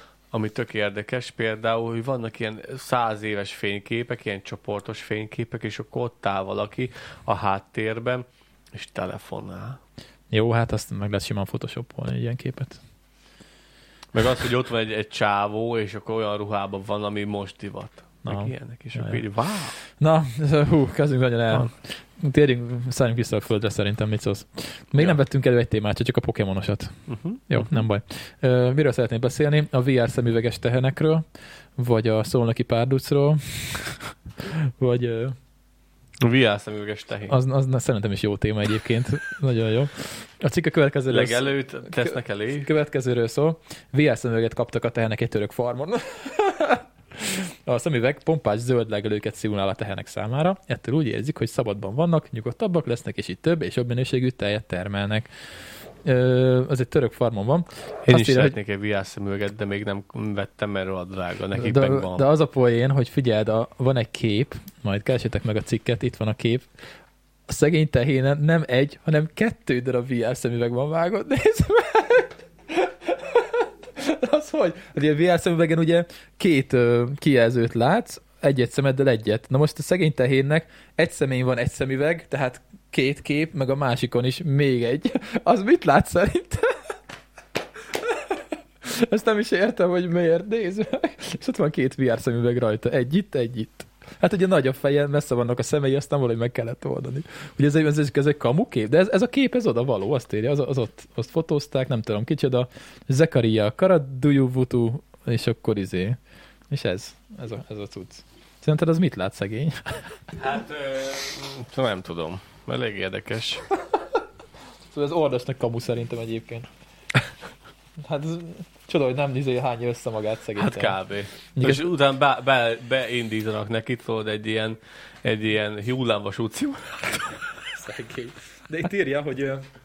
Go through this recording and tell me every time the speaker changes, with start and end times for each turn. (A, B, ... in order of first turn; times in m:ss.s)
0:00.3-0:09.8 A
0:10.3-0:12.8 B
0:14.1-0:19.8 A
0:18.2-0:19.2 B
0:19.8-0:31.2 B
0:27.1-0:27.8 A
0:31.8-0:35.4 B
0:36.2-0:37.4 A
0:37.3-0:55.3 B
0:41.1-0:42.7 A
0:56.0-0:58.6 B
0:58.0-1:02.2 A
1:01.5-1:06.7 B
1:07.5-1:26.9 B
1:27.9-1:46.2 B
1:46.7-1:50.3 B
1:50.4-1:53.7 A
1:54.9-1:56.7 B
1:58.0-2:01.0 B
2:00.6-2:07.4 A
2:01.5-2:01.9 B
2:07.7-2:09.7 B